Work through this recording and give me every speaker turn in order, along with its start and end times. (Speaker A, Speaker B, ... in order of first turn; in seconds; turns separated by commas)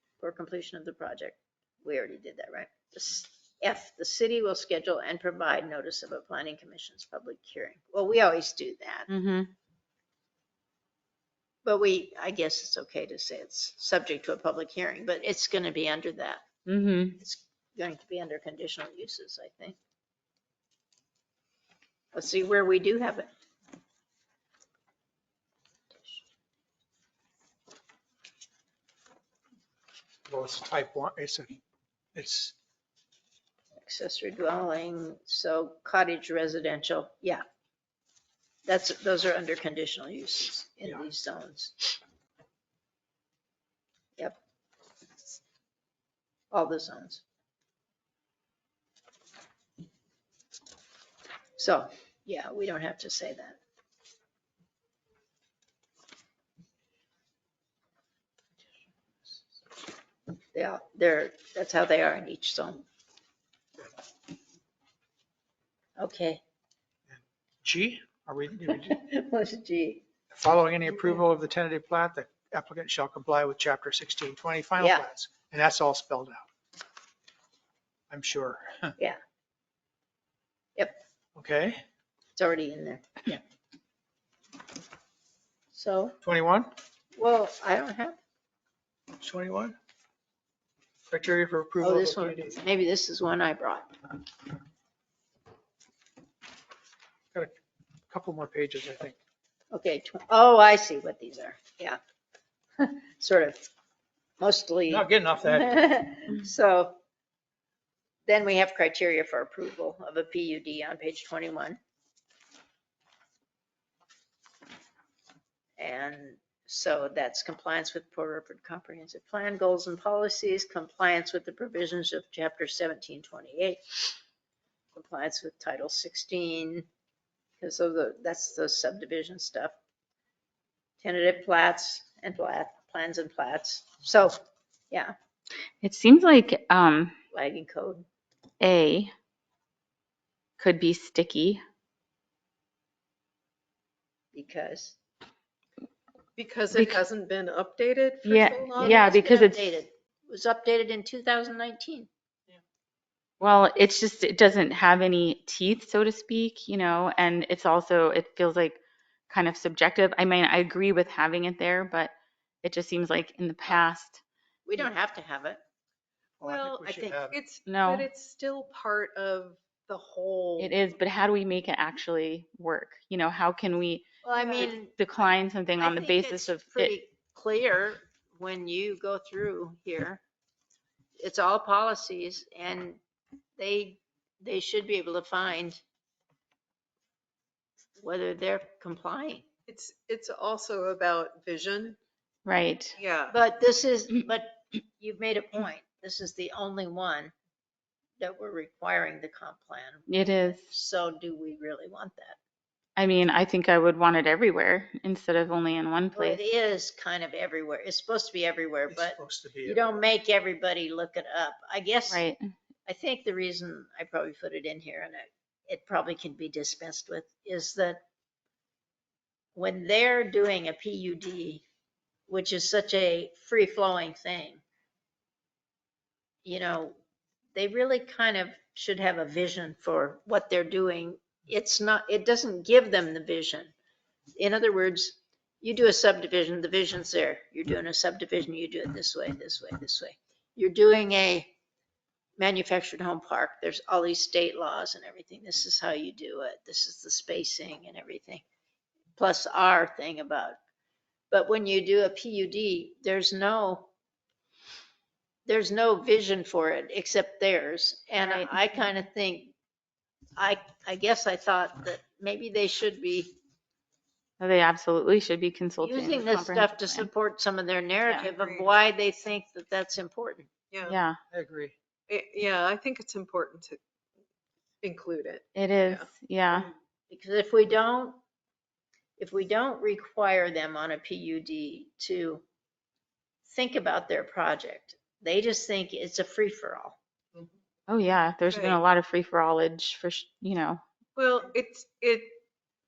Speaker A: 0.2-9.1, Speaker B: 9.1-9.5, Speaker A: 11.6-16.4, Speaker B: 16.7-17.2, Speaker A: 17.2-19.8, Speaker A: 22.1-23.3, Speaker C: 30.3-31.6, Speaker C: 32.1-32.5, Speaker A: 33.8-37.4, Speaker A: 38.6-42.0, Speaker A: 46.5-47.2, Speaker A: 51.6-53.6, Speaker A: 60.5-62.9, Speaker A: 66.0-66.4, Speaker C: 67.1-69.0, Speaker A: 68.7-70.0, Speaker C: 70.3-76.5, Speaker A: 74.8-75.1, Speaker C: 78.1-78.9, Speaker C: 81.4-81.8, Speaker A: 82.4-83.4, Speaker A: 85.7-86.2, Speaker C: 86.2-86.7, Speaker A: 87.2-88.2, Speaker C: 89.2-89.8, Speaker C: 91.1-92.6, Speaker A: 91.8-93.9, Speaker C: 98.1-99.2, Speaker A: 99.7-102.0, Speaker A: 102.8-103.6, Speaker A: 104.4-107.0, Speaker C: 104.9-105.8, Speaker A: 108.3-111.8, Speaker A: 115.8-123.8, Speaker A: 124.9-126.9, Speaker A: 127.6-129.7, Speaker A: 131.0-134.4, Speaker B: 135.8-137.1, Speaker A: 137.3-138.1, Speaker B: 138.6-139.1, Speaker B: 140.6-141.6, Speaker A: 144.3-145.0, Speaker D: 146.4-149.1, Speaker B: 146.7-147.0, Speaker B: 148.2-149.7, Speaker A: 148.8-152.1, Speaker B: 153.4-164.2, Speaker A: 164.7-165.6, Speaker C: 166.4-167.4, Speaker D: 166.4-170.8, Speaker B: 167.7-168.1, Speaker B: 170.6-174.1, Speaker A: 174.2-174.9, Speaker D: 174.4-174.7, Speaker B: 174.6-176.9, Speaker A: 175.8-180.2, Speaker A: 181.2-183.0, Speaker A: 183.6-185.8, Speaker A: 188.0-189.4, Speaker D: 189.7-192.0, Speaker B: 192.4-193.0, Speaker D: 193.0-193.3, Speaker A: 193.3-197.3, Speaker A: 198.2-202.4, Speaker B: 200.1-200.7, Speaker B: 203.0-206.4, Speaker A: 206.2-212.2, Speaker C: 208.9-209.8, Speaker B: 212.1-212.4, Speaker A: 212.9-218.0, Speaker A: 219.6-221.6, Speaker A: 222.3-224.6, Speaker A: 226.4-227.0, Speaker A: 227.6-233.7, Speaker A: 234.4-241.5, Speaker A: 242.4-248.4, Speaker A: 249.2-250.6, Speaker A: 251.3-253.9, Speaker A: 255.5-259.5, Speaker B: 258.2-258.6, Speaker A: 260.4-263.4, Speaker B: 264.4-267.1, Speaker A: 265.8-270.5, Speaker D: 268.2-268.7, Speaker D: 270.7-271.0, Speaker B: 270.9-271.2, Speaker C: 271.3-271.8, Speaker D: 272.1-273.8, Speaker D: 274.8-276.1, Speaker B: 275.6-276.7, Speaker A: 277.1-278.2, Speaker A: 279.2-282.4, Speaker A: 283.4-287.0, Speaker B: 287.9-290.8, Speaker D: 288.5-288.8, Speaker D: 291.2-292.4